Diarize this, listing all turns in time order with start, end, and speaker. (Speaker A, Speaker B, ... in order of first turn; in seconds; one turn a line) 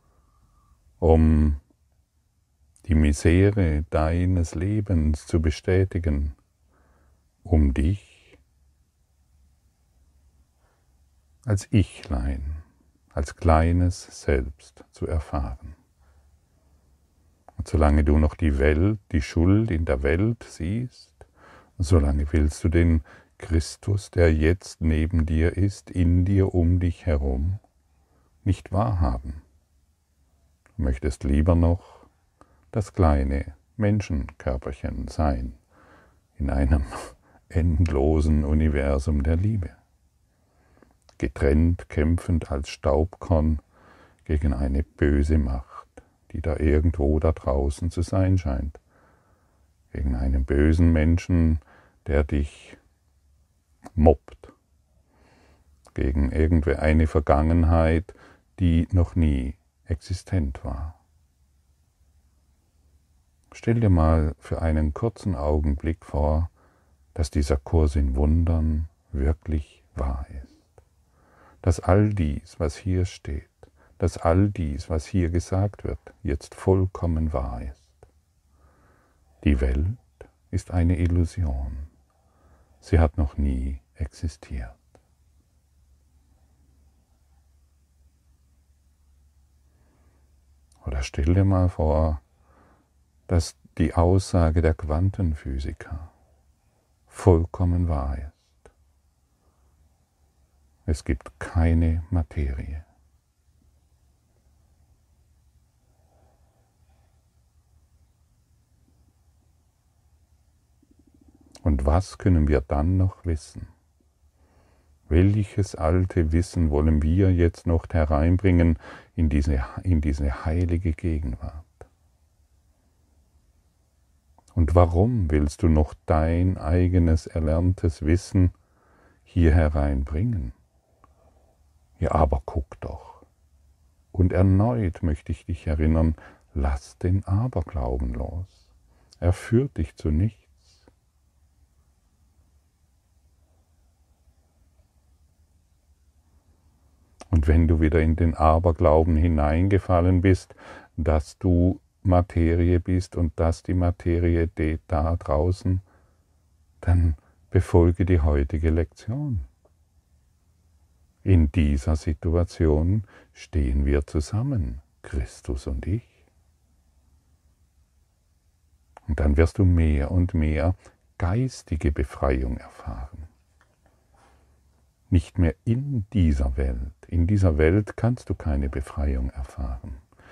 Speaker A: 1.0-1.6
Speaker A: 2.8-6.4
Speaker A: 7.4-8.4
Speaker A: 11.4-15.8
Speaker A: 17.6-21.2
Speaker A: 21.8-27.6
Speaker A: 28.4-29.4
Speaker A: 30.8-32.1
Speaker A: 32.7-35.6
Speaker A: 36.4-39.8
Speaker A: 41.2-43.6
Speaker A: 44.2-48.8
Speaker A: 49.9-52.8
Speaker A: 54.0-54.5
Speaker A: 55.9-61.0
Speaker A: 63.5-66.5
Speaker A: 67.1-70.7
Speaker A: 71.6-78.0
Speaker A: 79.4-81.9
Speaker A: 82.8-84.8
Speaker A: 90.8-92.2
Speaker A: 93.3-96.1
Speaker A: 97.1-98.7
Speaker A: 100.9-102.8
Speaker A: 111.6-113.7
Speaker A: 115.1-121.9
Speaker A: 124.5-128.5
Speaker A: 129.2-130.5
Speaker A: 132.0-133.2
Speaker A: 134.1-138.7
Speaker A: 139.2-140.9
Speaker A: 147.3-155.8
Speaker A: 156.8-159.5
Speaker A: 161.2-166.2
Speaker A: 169.1-173.3
Speaker A: 175.1-180.0